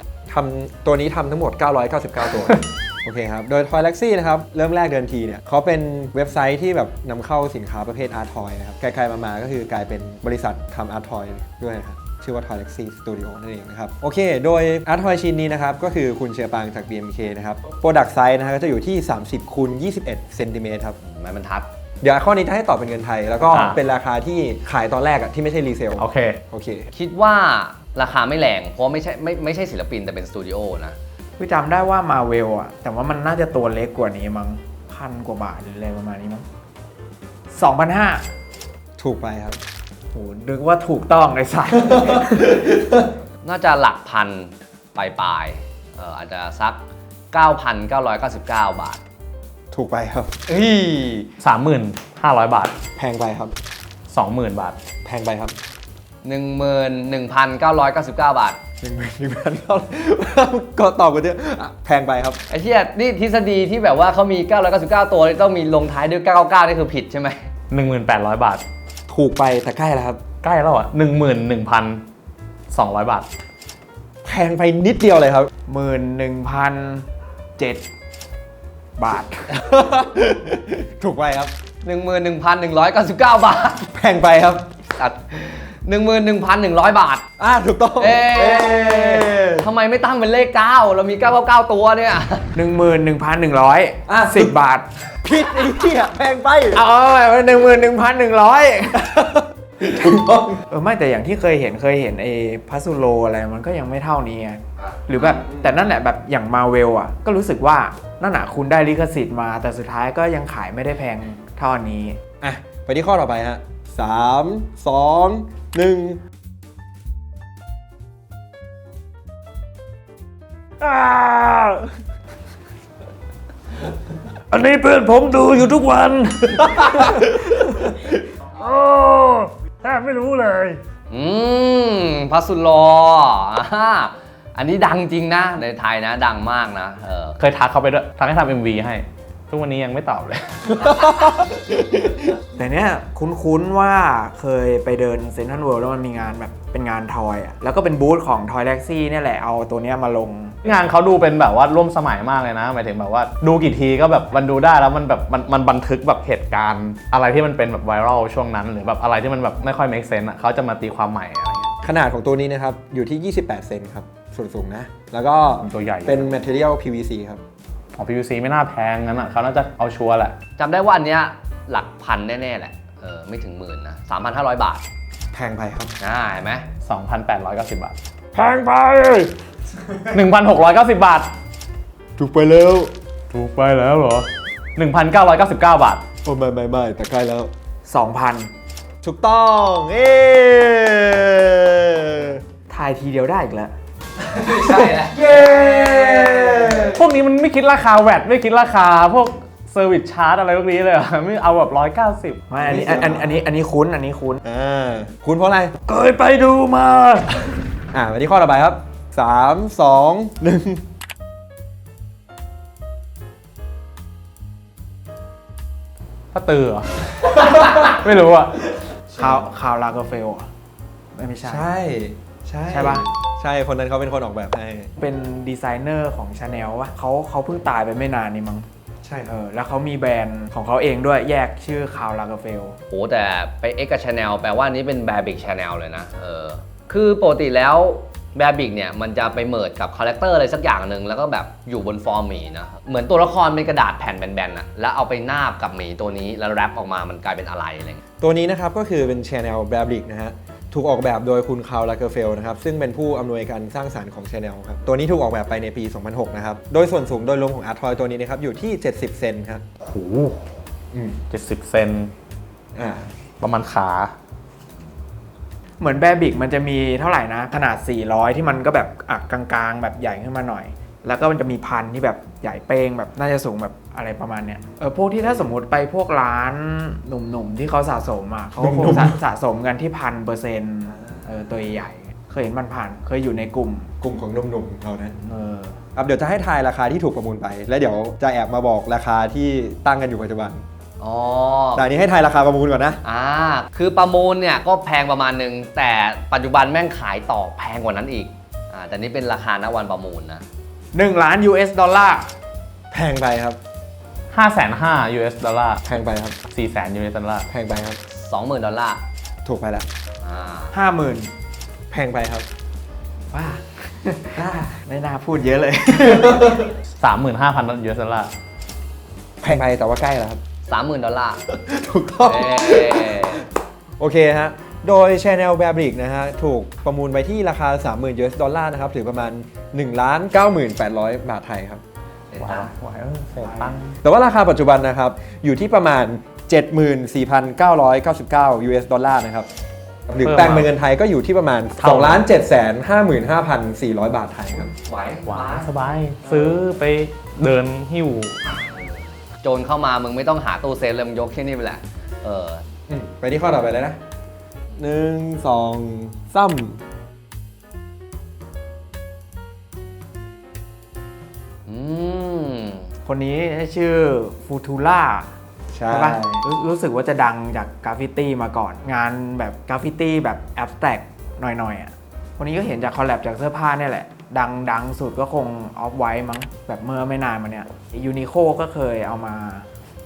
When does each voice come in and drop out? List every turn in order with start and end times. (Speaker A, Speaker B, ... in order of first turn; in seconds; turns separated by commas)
Speaker A: 0.3-21.0, Speaker B: 21.0-21.7, Speaker A: 22.0-26.9, Speaker C: 23.5-23.8, Speaker C: 26.0-26.4, Speaker B: 26.9-31.0, Speaker D: 31.4-36.5, Speaker D: 37.5-38.3, Speaker A: 39.0-39.6, Speaker D: 40.1-42.7, Speaker A: 42.0-43.0, Speaker B: 43.4-46.8, Speaker B: 47.3-49.0, Speaker A: 49.7-51.3, Speaker C: 51.4-52.8, Speaker A: 53.0-53.5, Speaker C: 54.1-54.8, Speaker A: 55.0-55.5, Speaker B: 56.2-58.6, Speaker A: 58.8-62.4, Speaker B: 62.5-67.5, Speaker C: 67.7-68.6, Speaker A: 69.1-70.2, Speaker C: 70.4-72.0, Speaker C: 72.7-73.3, Speaker A: 74.2-75.5, Speaker D: 75.7-77.1, Speaker D: 77.6-77.8, Speaker D: 79.0-79.5, Speaker A: 79.5-81.5, Speaker B: 81.8-83.9, Speaker A: 83.9-84.8, Speaker B: 85.0-87.3, Speaker A: 87.4-89.7, Speaker B: 88.0-92.5, Speaker D: 92.5-94.9, Speaker A: 94.1-94.5, Speaker A: 95.2-96.8, Speaker D: 96.7-99.2, Speaker A: 99.1-100.6, Speaker D: 100.7-112.2, Speaker A: 112.4-116.2, Speaker C: 120.8-121.8, Speaker C: 124.5-126.6, Speaker C: 128.6-130.8, Speaker B: 131.1-137.4, Speaker C: 137.4-141.4, Speaker A: 140.8-141.6, Speaker D: 142.6-150.6, Speaker C: 150.6-161.7, Speaker A: 161.8-167.4, Speaker C: 165.6-166.4, Speaker C: 167.9-170.4, Speaker B: 170.6-174.8, Speaker A: 175.3-175.9, Speaker B: 176.0-176.7, Speaker C: 176.8-178.0, Speaker A: 178.3-179.3, Speaker A: 179.9-180.2, Speaker C: 180.1-181.3, Speaker A: 182.2-182.9, Speaker C: 183.3-186.1, Speaker A: 186.2-187.5, Speaker D: 187.8-188.5, Speaker A: 189.0-192.4, Speaker D: 192.7-193.7, Speaker B: 194.3-196.9, Speaker A: 194.6-197.0, Speaker C: 196.9-202.4, Speaker D: 202.5-204.4, Speaker A: 202.6-203.4, Speaker A: 204.4-205.8, Speaker C: 205.9-207.4, Speaker A: 207.9-210.8, Speaker C: 216.3-218.6, Speaker D: 219.1-220.5, Speaker D: 221.2-221.7, Speaker A: 221.4-224.9, Speaker D: 222.7-223.1, Speaker D: 225.0-228.7, Speaker A: 229.0-229.3, Speaker D: 229.2-232.8, Speaker B: 232.9-248.0, Speaker A: 248.2-259.6, Speaker C: 259.8-260.5, Speaker A: 260.9-261.2, Speaker C: 261.3-262.1, Speaker A: 262.8-263.1, Speaker C: 263.4-264.1, Speaker D: 265.8-283.9, Speaker A: 278.6-279.2, Speaker A: 284.0-285.2, Speaker D: 285.2-285.8, Speaker A: 285.9-290.6, Speaker B: 291.0-291.9, Speaker A: 291.8-293.0, Speaker B: 293.0-300.4, Speaker D: 300.9-302.3, Speaker A: 302.9-303.6, Speaker C: 304.3-305.8, Speaker A: 305.9-306.4, Speaker C: 306.5-307.5, Speaker A: 307.5-308.0, Speaker B: 308.1-309.0, Speaker A: 309.4-309.9, Speaker B: 310.2-310.7, Speaker D: 310.7-311.3, Speaker A: 311.9-312.5, Speaker D: 313.3-316.7, Speaker A: 314.4-314.8, Speaker A: 316.1-316.6, Speaker C: 317.0-318.3, Speaker A: 319.4-320.4, Speaker B: 320.7-321.4, Speaker A: 321.5-323.4, Speaker B: 322.2-323.4, Speaker A: 324.0-331.8, Speaker B: 332.3-332.7, Speaker C: 332.4-334.0, Speaker D: 333.4-333.7, Speaker A: 334.0-339.5, Speaker A: 340.1-344.7, Speaker C: 340.2-340.7, Speaker C: 341.8-342.2, Speaker B: 344.6-345.7, Speaker C: 345.3-348.4, Speaker B: 349.4-352.6, Speaker A: 352.9-354.0, Speaker A: 354.8-356.8, Speaker B: 361.7-362.9, Speaker D: 363.1-365.3, Speaker A: 365.7-366.4, Speaker D: 365.9-379.6